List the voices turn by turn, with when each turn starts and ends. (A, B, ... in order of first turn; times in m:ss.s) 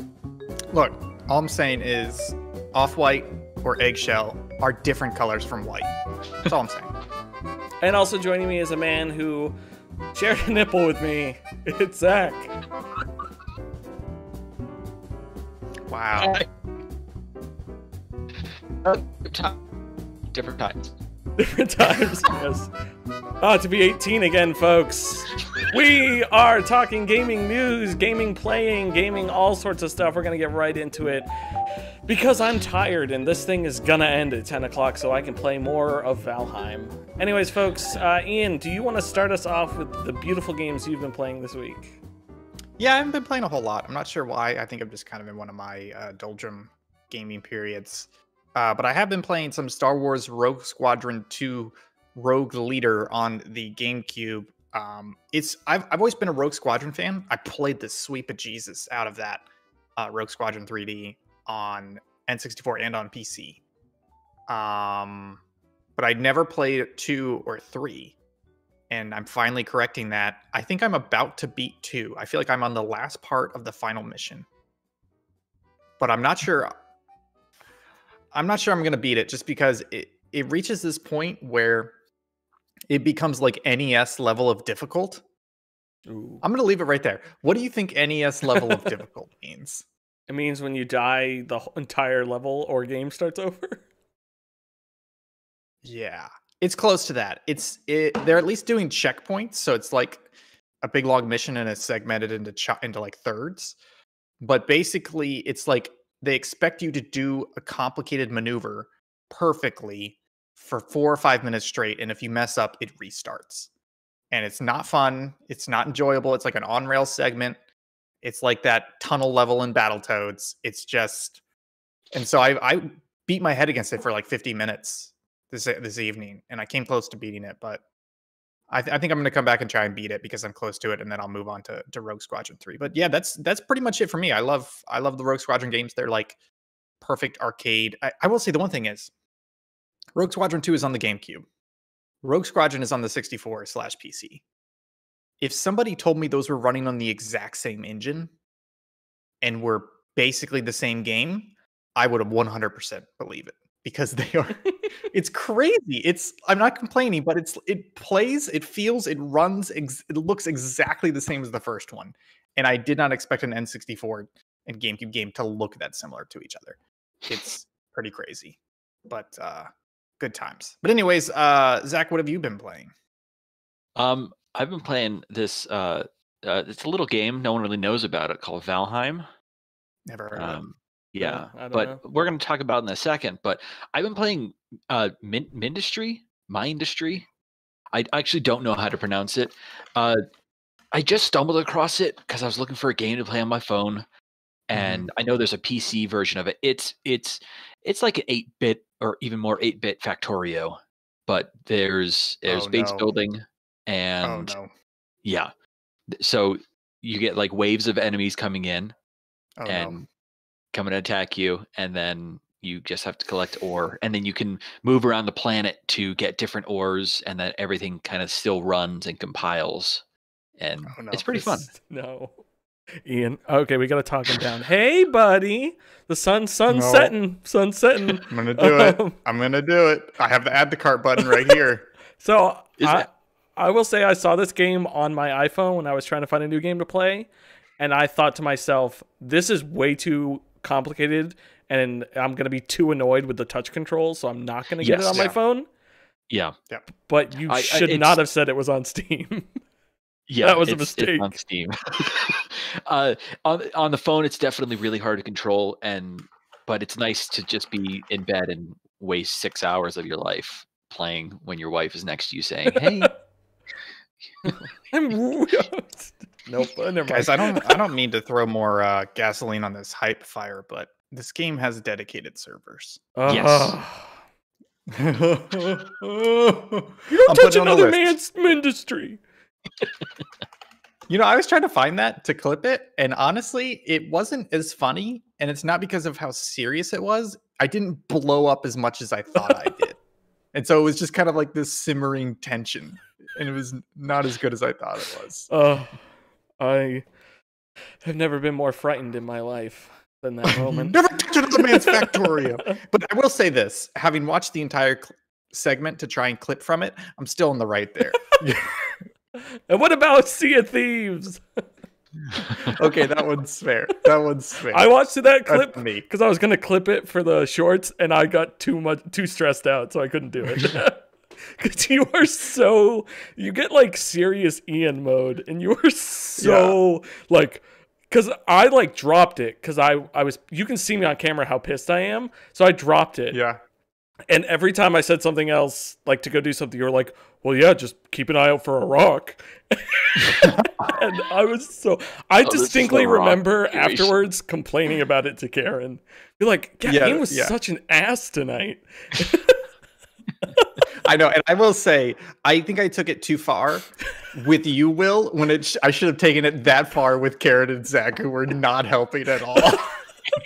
0:00.7-0:05.9 A
0:06.4-0:06.9 A
0:07.8-0:09.6 B
0:10.1-0:12.5 B
0:15.9-0:16.4 A
0:16.2-0:16.4 C
0:18.8-0:19.6 C
0:20.3-0:20.9 C
0:21.4-0:22.7 B
0:23.4-0:31.3 B
0:32.1-0:42.0 B
0:42.8-0:59.4 A
1:00.0-1:03.6 A
1:04.5-1:05.4 A
1:06.0-1:08.2 A
1:08.9-1:14.5 A
1:16.0-1:16.7 A
1:18.3-1:21.9 A
1:22.9-1:25.2 A
1:26.1-1:26.4 B
1:26.4-1:29.8 A
1:30.3-1:33.8 B
1:35.8-1:40.3 A
1:40.8-1:43.8 A
1:44.4-1:53.7 A
1:54.3-1:57.6 A
1:58.2-2:01.4 A
2:02.1-2:07.8 A
2:08.7-2:16.4 A
2:17.0-2:19.1 A
2:20.2-2:21.5 A
2:22.2-2:24.4 A
2:25.4-2:28.3 A
2:29.4-2:49.7 A
2:50.2-2:52.9 A
2:54.0-2:59.2 C
3:00.1-3:00.6 A
3:00.3-3:07.3 C
3:01.2-3:02.0 B
3:07.9-3:10.2 C
3:10.9-3:14.1 C
3:14.7-3:24.6 C
3:14.7-3:15.1 A
3:22.5-3:23.1 A
3:24.2-3:24.7 A
3:25.2-3:25.5 C
3:26.2-3:29.0 C
3:29.6-3:30.1 A
3:29.7-3:30.1 C
3:30.7-3:40.0 C
3:40.6-3:41.7 C
3:40.9-3:41.6 A
3:41.7-3:42.4 B
3:43.0-3:49.2 B
3:46.7-3:47.1 A
3:48.3-3:51.9 A
3:52.2-4:05.7 B
3:52.8-3:53.1 C
4:04.8-4:05.4 C
4:06.3-4:06.6 C
4:07.0-4:09.5 B
4:07.5-4:08.2 C
4:10.3-4:23.2 C
4:10.4-4:11.4 B
4:22.7-4:23.1 B
4:24.4-4:27.8 B
4:27.1-4:33.7 A
4:33.2-4:34.1 B
4:33.2-4:33.8 C
4:34.9-4:38.2 A
4:37.1-4:39.2 B
4:41.1-4:50.0 A
4:49.4-4:49.7 B
4:50.5-4:55.5 A
4:55.5-4:56.0 B
4:56.6-4:57.1 B
4:58.0-5:01.0 B
5:00.5-5:08.8 A
5:01.5-5:02.8 B
5:08.1-5:08.4 B
5:09.6-5:11.4 B
5:12.5-5:12.9 B
5:12.6-5:16.0 A
5:14.7-5:33.4 B
5:26.4-5:26.8 A
5:33.3-5:33.6 A
5:34.3-5:49.6 B
5:40.4-5:40.7 A
5:42.4-5:44.2 C
5:46.8-5:47.5 A
5:50.4-5:50.7 B
5:51.0-5:59.9 A
5:59.6-5:59.9 B